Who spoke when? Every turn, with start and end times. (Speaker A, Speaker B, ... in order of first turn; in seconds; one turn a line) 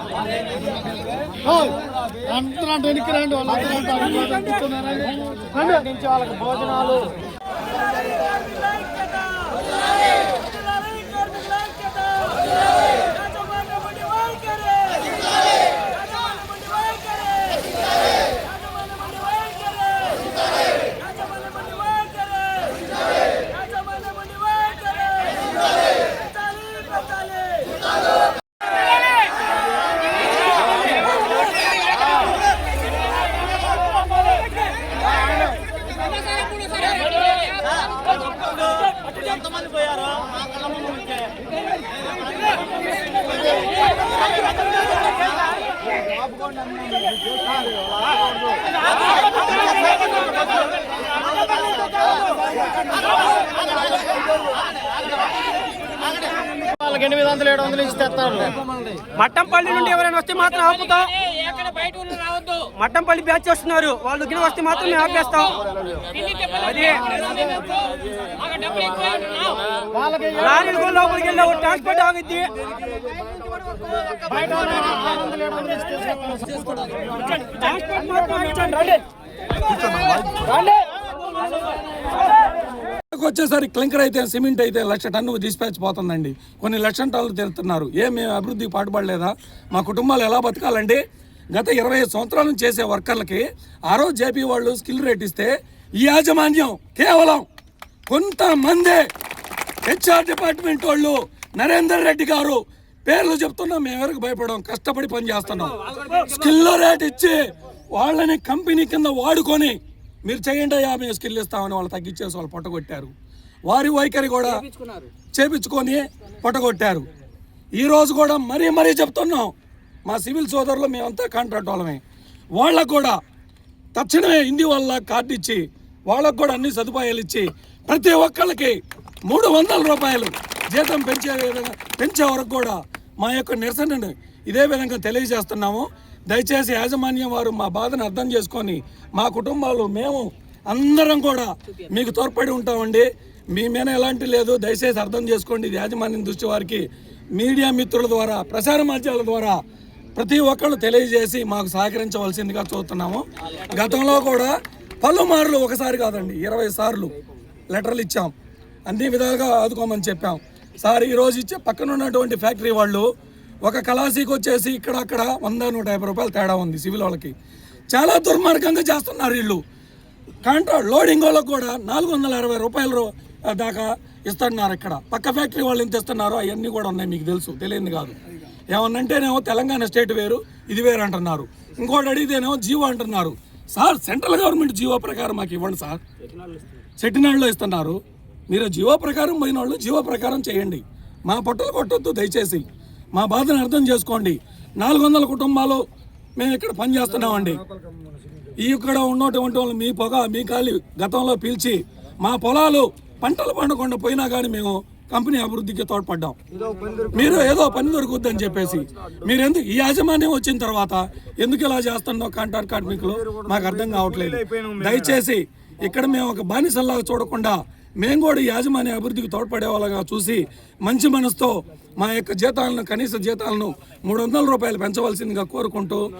Speaker A: 1.5-7.1
Speaker A: 56.8-58.5
Speaker B: 59.2-65.6
Speaker B: 66.2-67.5
Speaker B: 68.7-69.5
Speaker A: 69.9-70.4
Speaker B: 70.4-72.5
Speaker A: 74.2-76.6
Speaker B: 77.2-79.0
Speaker C: 83.1-91.0
Speaker C: 91.5-97.5
Speaker C: 98.1-99.1
Speaker C: 99.9-107.4
Speaker C: 107.9-113.1
Speaker C: 113.7-114.6
Speaker B: 114.7-115.1
Speaker C: 115.3-117.1
Speaker C: 117.8-119.5
Speaker C: 120.1-122.0
Speaker C: 122.6-123.2
Speaker C: 124.0-128.8
Speaker C: 129.3-146.8
Speaker C: 147.4-149.6
Speaker C: 150.2-157.1
Speaker C: 157.7-158.3
Speaker C: 158.9-163.1
Speaker C: 163.7-167.3
Speaker C: 167.9-169.6
Speaker C: 170.4-178.2
Speaker C: 178.7-186.0
Speaker C: 187.0-188.0
Speaker C: 188.5-195.8
Speaker C: 196.4-197.6
Speaker C: 198.6-206.4
Speaker A: 206.7-207.1
Speaker C: 207.1-226.0